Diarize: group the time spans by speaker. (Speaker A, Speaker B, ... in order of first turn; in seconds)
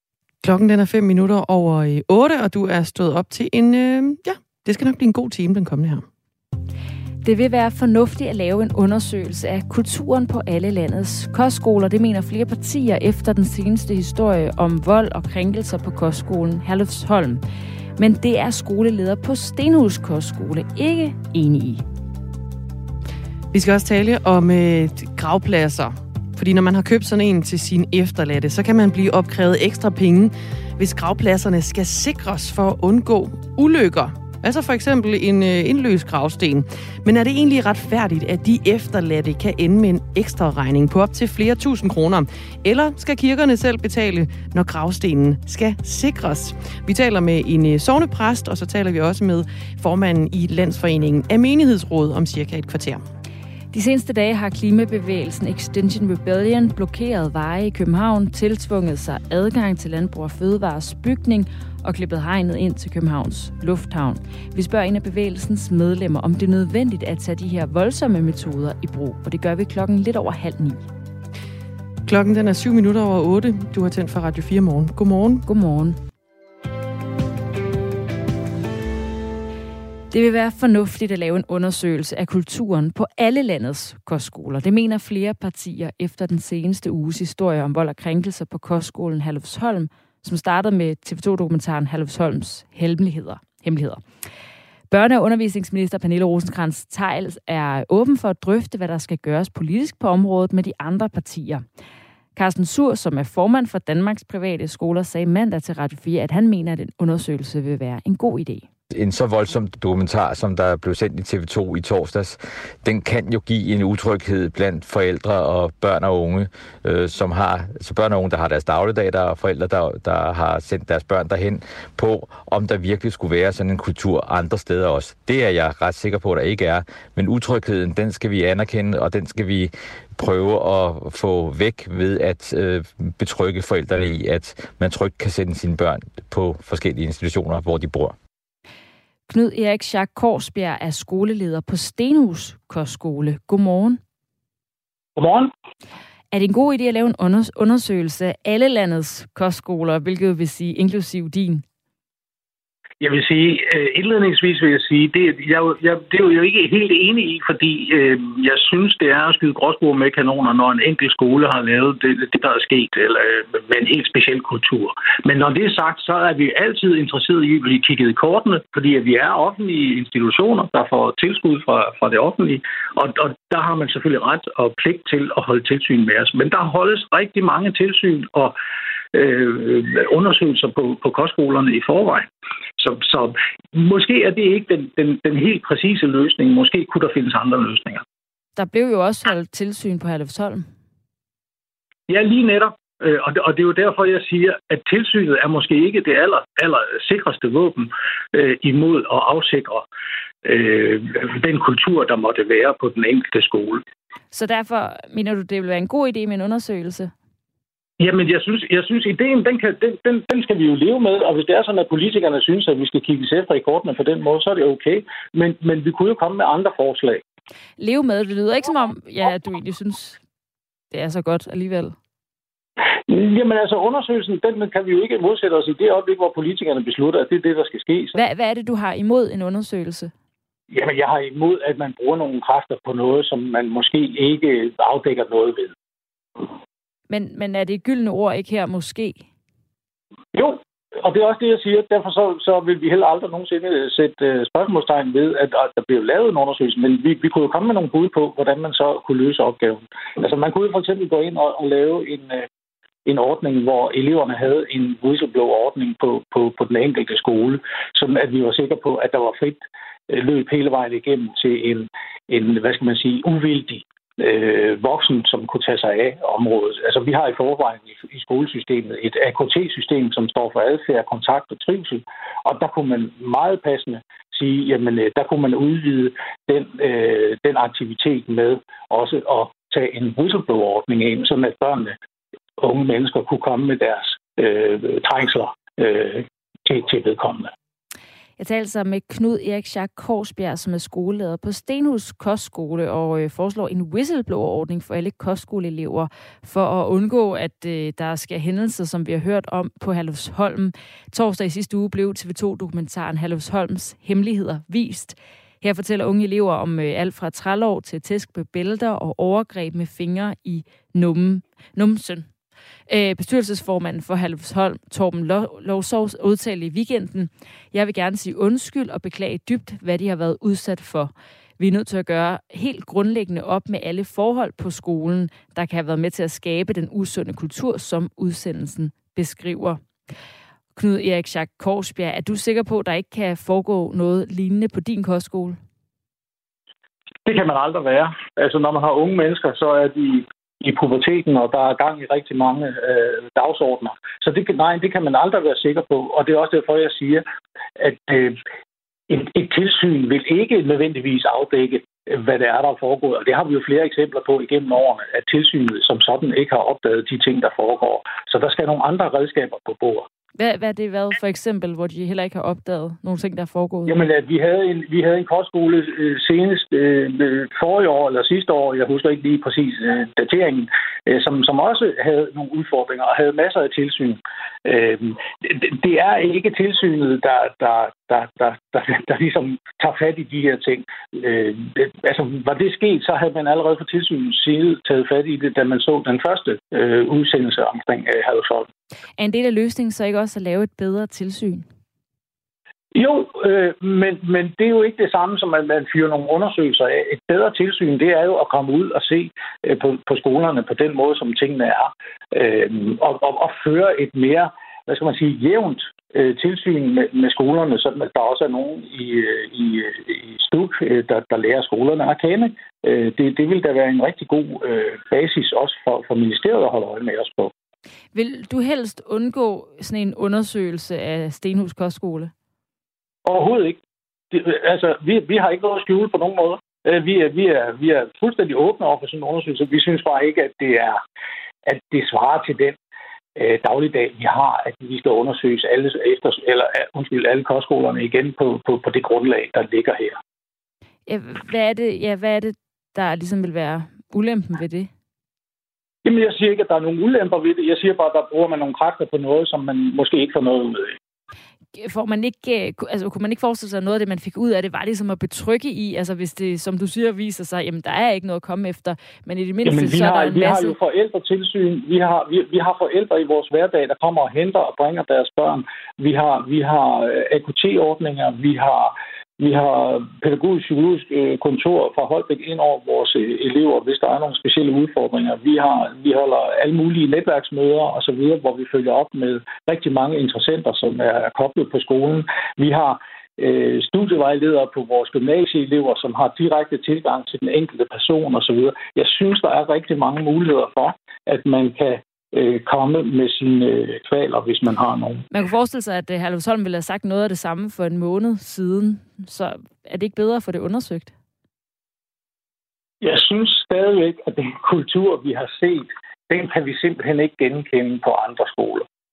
Speaker A: 0.4-6.0, 23.5-53.0, 72.0-75.4
Speaker B: 7.2-17.4, 18.0-21.8, 53.7-70.8, 75.5-76.0, 80.1-94.0, 94.9-101.6, 102.3-108.7, 139.3-144.0, 146.3-151.6, 188.6-190.7, 204.3-207.1, 217.8-220.2, 220.9-221.9, 228.1-230.1, 237.1-239.2, 288.4-312.3, 312.9-329.8, 330.7-335.6, 360.4-363.9, 389.2-391.6, 418.1-422.3, 441.1-444.9, 451.7-460.8, 495.3-501.1
Speaker C: 108.9-138.2
Speaker D: 145.2-145.5, 153.0-178.5, 179.1-182.2, 182.8-188.0, 192.1-199.8, 200.4-203.8, 208.0-217.2, 223.1-228.1, 230.7-235.7, 240.3-252.5, 253.1-281.9, 282.6-287.5, 337.2-347.2, 347.8-348.4, 349.1-360.1, 363.9-388.7, 392.9-417.5, 423.2-423.8, 424.3-431.0, 431.6-432.8, 433.4-440.2, 446.0-450.9, 459.6-495.2, 503.0-508.8